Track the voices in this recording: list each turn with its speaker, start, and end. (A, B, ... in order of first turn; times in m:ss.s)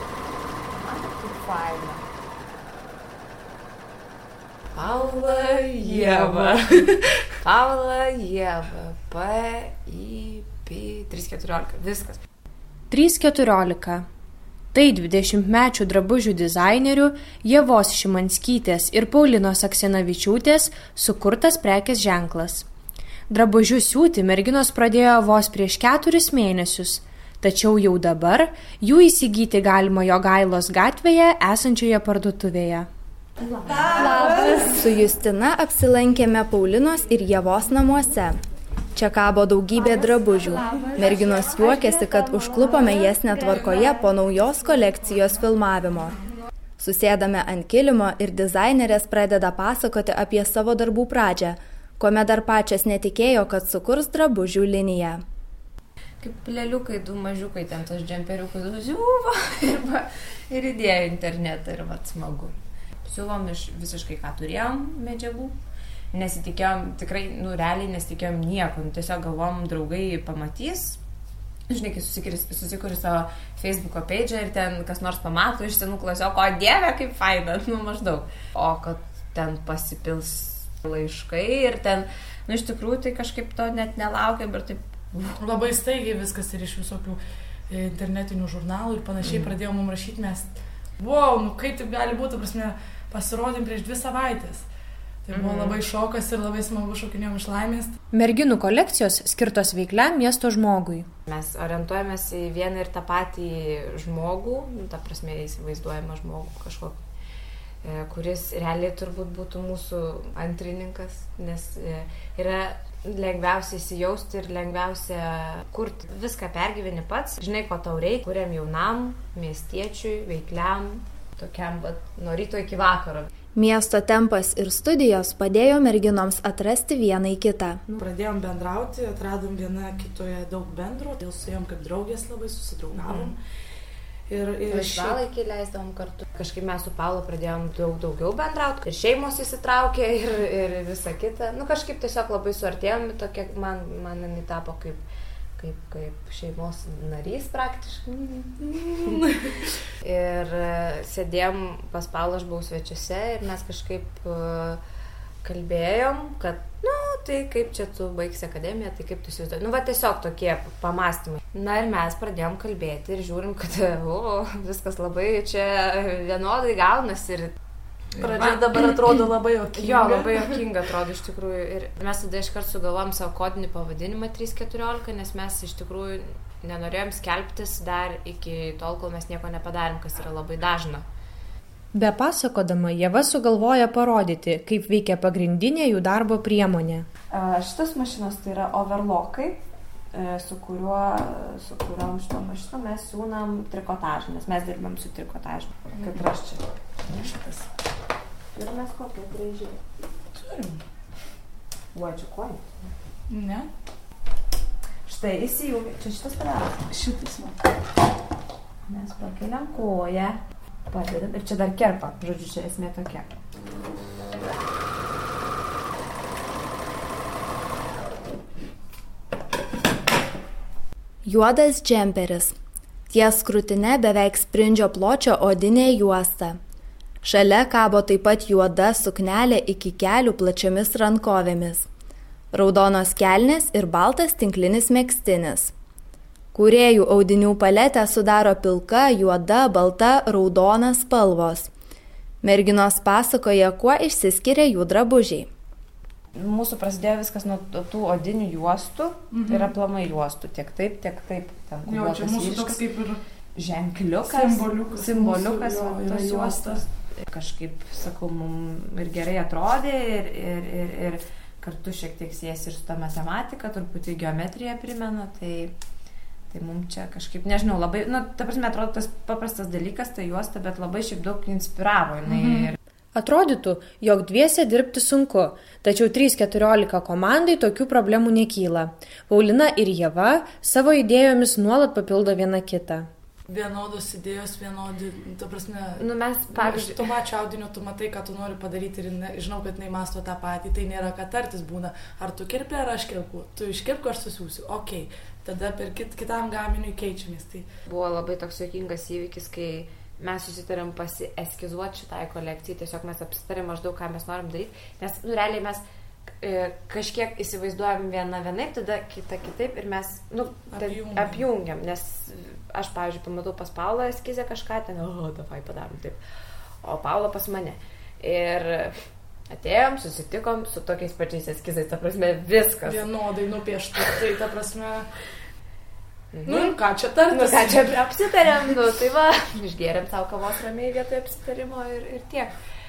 0:00.7-0:02.0 A
0:04.7-0:12.2 A
0:05.8-0:07.0 B
0:12.9-0:14.0 C
0:14.7-0:22.6 C
0:23.3-0:32.9 C
0:34.4-0:38.4 D
0:38.9-0:46.1 D
0:46.8-0:55.2 D
0:56.2-1:05.6 A
1:06.1-1:11.0 A
1:11.7-1:25.4 A
1:25.4-1:34.6 B
1:35.2-1:37.9 B
1:35.3-1:35.8 A
1:38.1-1:41.0 C
1:41.3-1:47.0 A
1:47.8-2:03.3 A
2:03.5-2:07.8 D
2:08.0-2:13.4 B
2:13.0-2:13.3 A
2:14.3-2:15.2 B
2:14.7-2:25.0 A
2:25.6-2:29.4 A
2:30.0-2:34.8 A
2:35.4-2:47.5 A
2:48.2-2:50.6 B
2:48.2-2:48.9 A
2:49.7-3:01.0 A
3:01.9-3:07.1 C
3:07.3-3:09.6 A
3:10.1-3:16.6 A
3:17.2-3:17.6 B
3:18.5-3:19.8 A
3:20.3-3:20.8 B
3:21.9-3:22.9 A
3:23.3-3:23.7 B
3:25.0-3:26.9 A
3:26.9-3:27.6 B
3:28.9-3:33.3 A
3:41.2-3:42.5 D
3:43.1-3:46.6 D
3:47.2-3:51.9 D
3:52.5-3:55.7 D
3:56.5-4:01.7 D
4:02.4-4:05.5 D
4:06.4-4:12.8 A
4:09.3-4:09.7 B
4:11.8-4:13.2 B
4:13.6-4:25.7 A
4:14.2-4:16.7 B
4:26.5-4:32.8 A
4:32.3-4:32.6 B
4:33.1-4:43.1 C
4:43.5-4:57.6 B
4:46.0-4:47.0 A
4:57.8-5:05.8 A
5:06.4-5:16.2 A
5:10.7-5:11.4 B
5:16.8-5:18.9 A
5:19.5-5:23.0 A
5:22.8-5:25.1 B
5:26.3-5:26.8 A
5:26.4-5:28.0 B
5:27.3-5:32.5 A